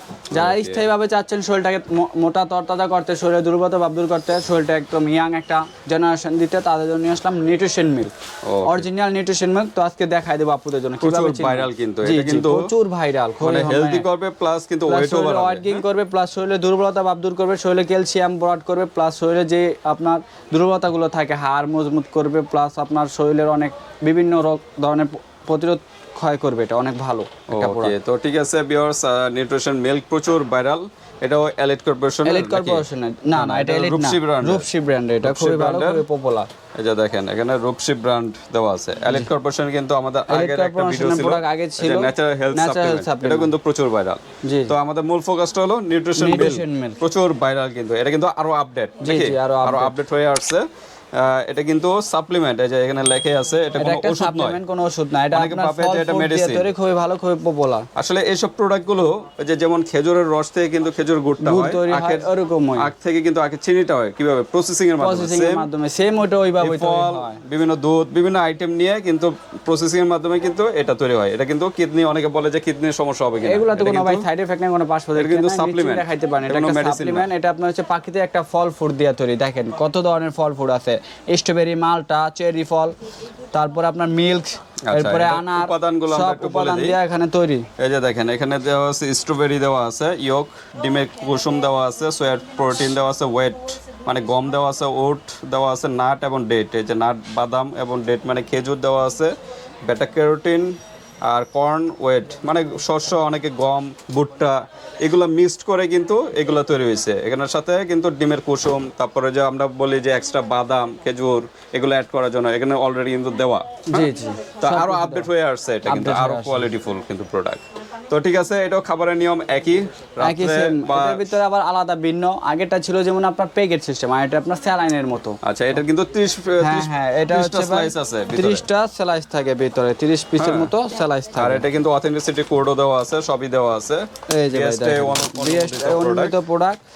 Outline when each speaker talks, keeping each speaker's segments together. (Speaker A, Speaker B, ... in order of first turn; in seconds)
Speaker A: 0.3-8.1, 8.7-14.0, 14.9-27.9, 32.2-36.5, 40.3-43.5, 44.4-44.7, 46.2-47.0, 49.0-49.9, 53.8-57.9, 61.4-62.9, 65.0-67.4, 73.4-82.9, 83.5-87.7, 113.9-115.3, 115.9-116.7, 120.2-125.4, 126.6-131.6, 134.3-136.8
Speaker B: 0.3-0.9, 8.4-8.8, 11.0-12.7, 13.4-15.8, 27.5-34.6, 35.2-36.0, 36.8-54.6, 55.3-56.7, 58.0-65.7, 66.6-74.2, 75.1-77.3, 84.9-87.0, 87.8-99.3, 99.8-114.1, 114.6-121.4, 125.4-128.6, 130.4-130.7, 131.3-136.3